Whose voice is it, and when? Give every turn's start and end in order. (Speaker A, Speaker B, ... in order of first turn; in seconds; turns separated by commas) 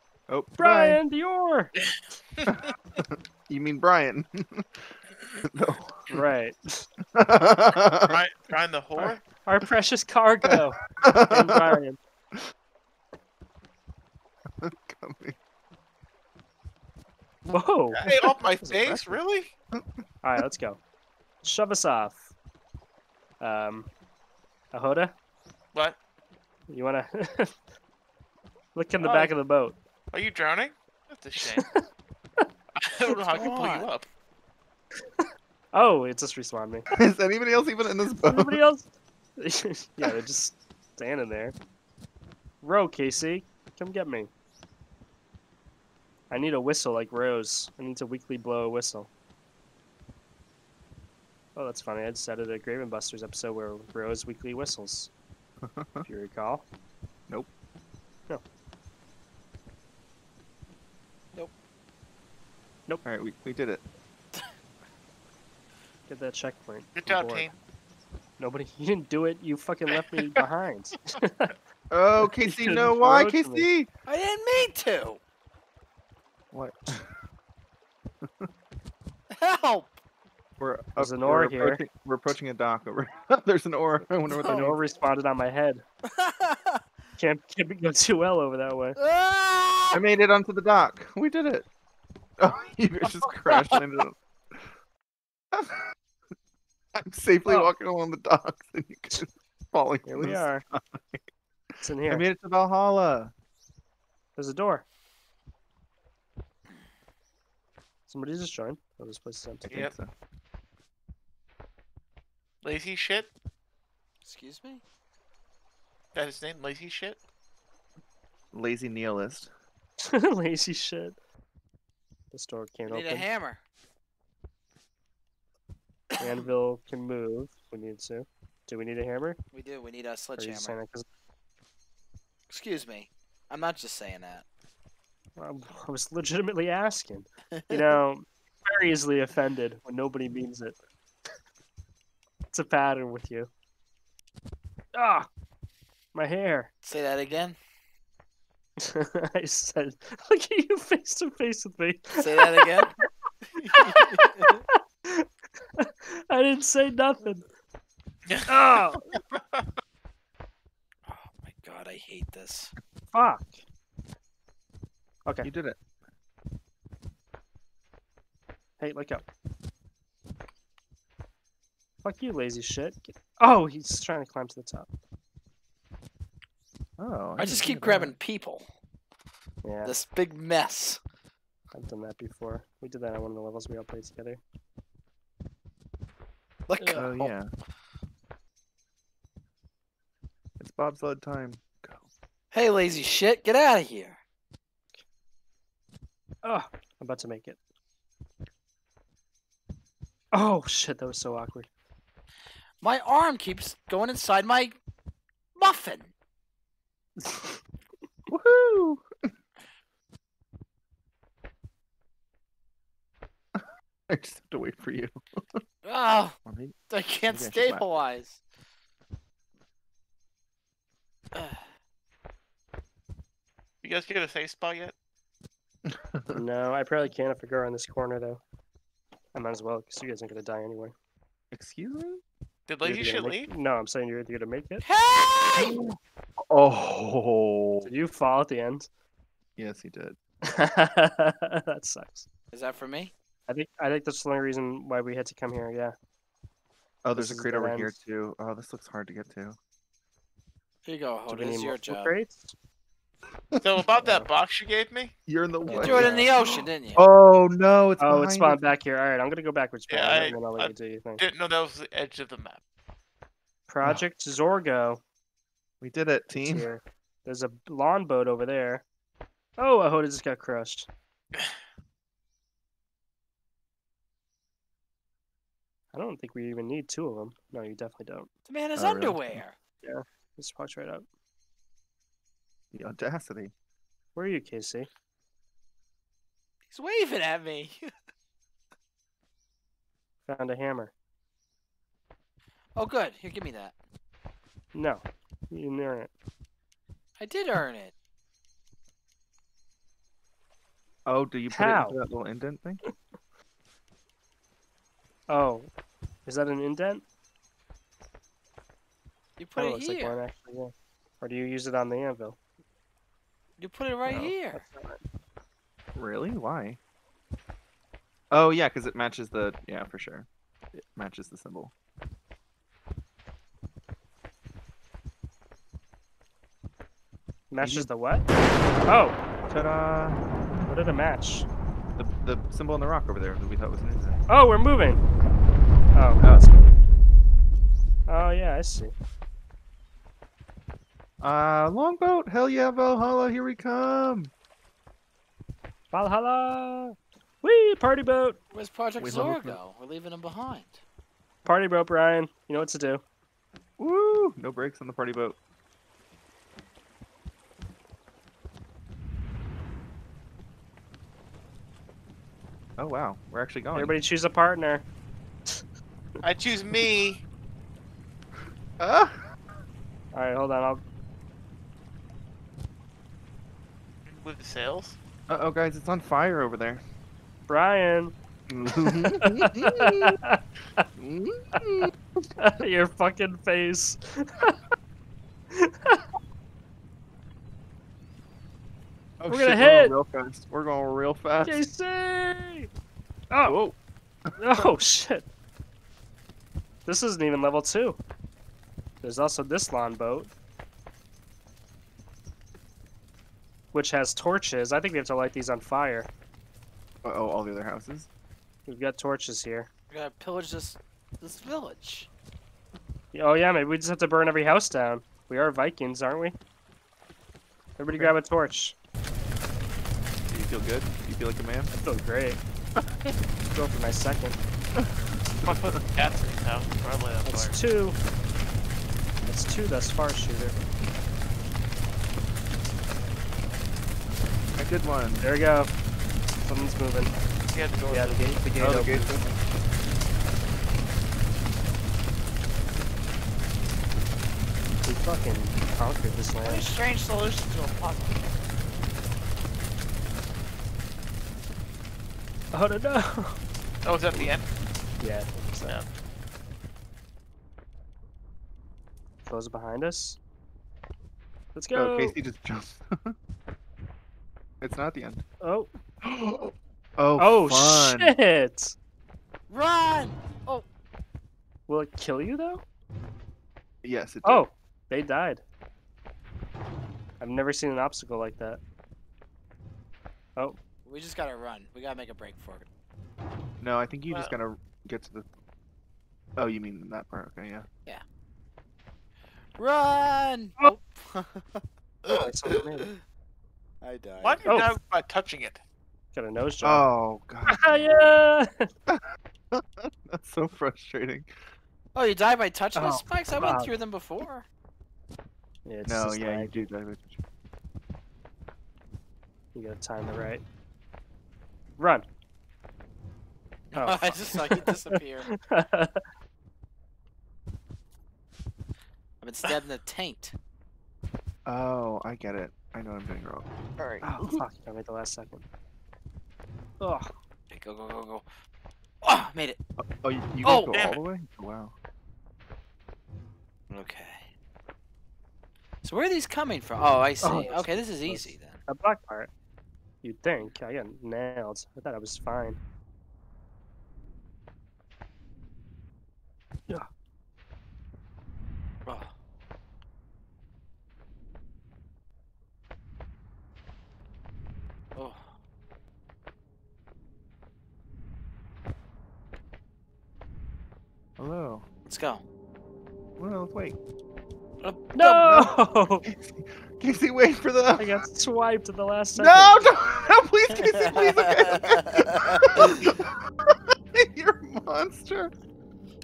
Speaker A: 0.3-1.0, Speaker B: 0.6-1.7, Speaker A: 2.5-6.2, Speaker B: 6.1-6.9, Speaker A: 7.1-8.2, Speaker C: 8.1-9.2, Speaker B: 9.5-12.0, Speaker A: 11.0-11.8, Speaker A: 14.6-15.4, Speaker B: 17.4-18.1, Speaker C: 18.0-19.5, Speaker A: 18.1-19.2, Speaker B: 20.2-20.8, Speaker B: 21.4-22.3, Speaker B: 23.4-23.9, Speaker B: 24.7-25.1, Speaker B: 26.7-27.5, Speaker B: 28.7-29.8, Speaker C: 29.0-29.3, Speaker C: 30.1-31.7, Speaker B: 31.5-31.8, Speaker C: 32.8-34.1, Speaker D: 33.3-33.9, Speaker B: 35.2-36.9, Speaker A: 37.0-38.6, Speaker B: 38.2-41.6, Speaker B: 42.6-44.3, Speaker B: 46.3-49.1, Speaker B: 51.5-55.1, Speaker A: 55.6-56.1, Speaker B: 56.0-56.7, Speaker A: 63.0-63.8, Speaker B: 66.1-67.5, Speaker C: 67.0-67.5, Speaker B: 68.4-71.5, Speaker C: 69.9-70.4, Speaker A: 71.9-73.9, Speaker B: 72.2-73.7, Speaker D: 74.1-75.2, Speaker A: 76.5-77.1, Speaker D: 79.3-79.9, Speaker A: 80.6-84.8, Speaker B: 81.0-81.8, Speaker D: 84.4-84.6, Speaker B: 84.4-85.8, Speaker D: 86.1-86.8, Speaker B: 87.2-89.0, Speaker D: 89.0-90.0, Speaker A: 89.9-91.7, Speaker A: 92.4-94.6, Speaker D: 93.0-93.8, Speaker A: 95.5-95.8, Speaker A: 97.0-101.2, Speaker B: 97.5-97.7, Speaker B: 100.1-100.6, Speaker B: 101.8-102.3, Speaker A: 102.1-103.3, Speaker B: 104.4-104.8, Speaker B: 108.1-109.7, Speaker A: 109.6-110.1, Speaker C: 112.6-113.3, Speaker D: 114.2-114.8, Speaker C: 116.1-117.2, Speaker A: 118.5-119.5, Speaker B: 120.0-121.2, Speaker B: 122.3-123.3, Speaker D: 122.9-123.6, Speaker D: 126.2-126.5, Speaker B: 126.2-129.4, Speaker D: 129.5-130.8, Speaker B: 130.4-131.1, Speaker D: 132.5-134.4, Speaker B: 135.4-140.8, Speaker D: 137.5-138.0, Speaker B: 142.5-143.5, Speaker B: 144.9-145.3, Speaker B: 146.1-146.7, Speaker D: 146.8-147.6, Speaker B: 148.8-152.7, Speaker D: 152.2-153.0, Speaker D: 153.6-154.6, Speaker B: 153.8-154.4, Speaker B: 155.8-157.5, Speaker B: 158.5-159.0, Speaker D: 161.1-162.7, Speaker B: 163.1-163.6, Speaker A: 165.4-165.8, Speaker B: 168.8-169.2, Speaker B: 172.0-174.9, Speaker A: 177.0-178.2, Speaker D: 177.4-178.7, Speaker B: 179.6-179.9, Speaker D: 179.8-181.0, Speaker B: 181.7-184.4, Speaker D: 186.7-187.3, Speaker B: 186.8-187.1, Speaker A: 186.9-187.5, Speaker A: 190.6-192.1, Speaker D: 192.5-194.2, Speaker B: 196.4-197.6, Speaker B: 200.3-201.7, Speaker D: 202.8-204.8, Speaker D: 205.6-206.1, Speaker B: 207.2-207.6, Speaker A: 208.3-209.1, Speaker A: 213.6-215.6, Speaker D: 215.8-216.4, Speaker A: 216.5-216.8, Speaker D: 216.9-218.4, Speaker A: 217.3-217.8, Speaker D: 221.3-221.6, Speaker C: 223.8-224.9, Speaker A: 225.9-226.4, Speaker B: 226.3-228.4, Speaker B: 229.3-230.9, Speaker A: 231.5-232.2, Speaker C: 232.7-233.5, Speaker B: 232.8-234.8, Speaker D: 234.8-235.8, Speaker A: 235.6-236.0, Speaker A: 236.5-237.9, Speaker B: 237.8-238.9, Speaker A: 239.6-240.2, Speaker B: 240.5-242.3, Speaker D: 242.5-243.1, Speaker B: 243.5-245.9, Speaker A: 247.0-249.6, Speaker B: 247.2-248.0, Speaker D: 250.8-252.2, Speaker B: 251.3-252.6, Speaker A: 253.5-253.8, Speaker C: 253.6-255.1, Speaker B: 254.0-254.3, Speaker A: 255.3-258.6, Speaker B: 255.7-256.3, Speaker D: 255.7-257.0, Speaker B: 258.0-261.2, Speaker C: 259.9-262.6, Speaker B: 263.7-265.0, Speaker A: 265.8-266.7, Speaker B: 266.4-268.8, Speaker B: 269.6-270.9, Speaker B: 275.9-278.3, Speaker D: 278.5-279.6, Speaker A: 278.8-279.4, Speaker B: 279.8-281.1, Speaker A: 282.7-283.5, Speaker B: 284.1-284.9, Speaker D: 286.7-287.9, Speaker B: 290.3-290.9, Speaker D: 292.8-293.8, Speaker B: 294.7-296.1, Speaker D: 297.2-297.9, Speaker A: 301.1-302.8, Speaker B: 301.5-302.0, Speaker B: 305.3-305.7, Speaker B: 306.3-307.1, Speaker D: 309.4-310.2, Speaker B: 309.6-312.4, Speaker D: 313.6-314.6, Speaker A: 314.1-314.4, Speaker B: 314.5-315.0, Speaker A: 315.9-316.8, Speaker A: 318.3-321.7, Speaker B: 327.5-328.3, Speaker A: 327.6-327.9, Speaker B: 328.9-329.2, Speaker A: 329.5-330.2, Speaker B: 330.7-331.5, Speaker A: 332.0-334.2, Speaker B: 334.3-335.0, Speaker B: 335.9-336.8, Speaker B: 338.1-338.9, Speaker A: 341.2-344.3, Speaker B: 345.9-348.4, Speaker D: 348.5-350.8, Speaker A: 349.0-349.6, Speaker B: 351.4-353.0, Speaker A: 353.8-355.4, Speaker A: 362.8-364.0, Speaker B: 363.7-364.9, Speaker C: 366.2-367.2, Speaker A: 368.8-369.2, Speaker B: 370.1-370.8, Speaker C: 374.1-375.0, Speaker A: 375.3-376.8, Speaker B: 377.5-378.1, Speaker A: 378.5-380.1, Speaker B: 378.8-380.9, Speaker A: 381.0-381.9, Speaker B: 382.4-384.6, Speaker B: 385.5-386.1, Speaker A: 389.2-391.6, Speaker B: 389.3-390.0, Speaker B: 391.4-392.7, Speaker B: 393.3-393.6, Speaker A: 393.4-393.8, Speaker A: 394.3-394.7, Speaker B: 394.4-395.3, Speaker B: 396.9-398.0, Speaker B: 399.0-400.3, Speaker B: 403.7-406.1, Speaker A: 407.0-408.1, Speaker B: 408.7-409.7, Speaker D: 409.9-412.1, Speaker B: 413.1-416.4, Speaker B: 417.8-418.8, Speaker A: 420.3-421.7, Speaker B: 421.7-422.4, Speaker B: 423.5-424.4, Speaker A: 424.8-425.8, Speaker C: 425.4-427.6, Speaker B: 427.2-428.0, Speaker B: 429.2-430.7, Speaker A: 434.6-435.2, Speaker B: 435.2-435.7, Speaker B: 436.4-437.1, Speaker C: 437.5-438.4, Speaker B: 437.9-439.2, Speaker A: 438.4-439.4, Speaker B: 444.8-446.7, Speaker D: 446.4-448.2, Speaker B: 452.5-453.4, Speaker C: 453.8-454.4, Speaker B: 455.0-455.8, Speaker B: 459.2-460.2, Speaker B: 461.6-462.2, Speaker A: 461.7-463.1, Speaker A: 464.6-465.2, Speaker B: 465.4-465.7, Speaker A: 466.0-468.1, Speaker B: 467.2-468.8, Speaker D: 469.5-470.6, Speaker B: 471.7-472.6, Speaker A: 473.8-474.4, Speaker B: 474.2-475.4, Speaker B: 477.2-478.6, Speaker D: 480.9-482.7, Speaker A: 483.6-485.3, Speaker A: 486.4-487.7, Speaker D: 489.6-493.0, Speaker B: 492.1-492.9, Speaker D: 493.8-494.5, Speaker C: 494.2-495.6, Speaker B: 494.5-494.8, Speaker B: 496.1-496.9, Speaker A: 496.6-497.9, Speaker B: 497.5-498.7, Speaker A: 499.5-501.3, Speaker D: 501.9-504.5, Speaker B: 502.8-503.7, Speaker B: 505.7-506.7, Speaker A: 505.8-507.2, Speaker B: 509.5-510.4, Speaker B: 511.8-512.1, Speaker D: 513.7-515.3, Speaker B: 513.8-516.0, Speaker D: 519.2-520.4, Speaker A: 521.5-524.5, Speaker B: 524.0-525.5, Speaker B: 526.8-527.1, Speaker D: 527.5-528.3, Speaker D: 529.0-529.6, Speaker A: 529.8-531.8, Speaker C: 530.5-531.0, Speaker D: 533.7-534.2, Speaker D: 535.8-538.6, Speaker B: 537.2-539.3, Speaker B: 540.0-542.6, Speaker D: 548.9-549.1, Speaker D: 555.0-555.2, Speaker A: 561.2-561.7, Speaker D: 561.9-562.2, Speaker A: 563.2-563.8, Speaker D: 564.6-564.9, Speaker B: 564.9-566.1, Speaker A: 565.0-568.0, Speaker B: 567.8-569.5, Speaker A: 569.2-575.3, Speaker D: 570.6-571.8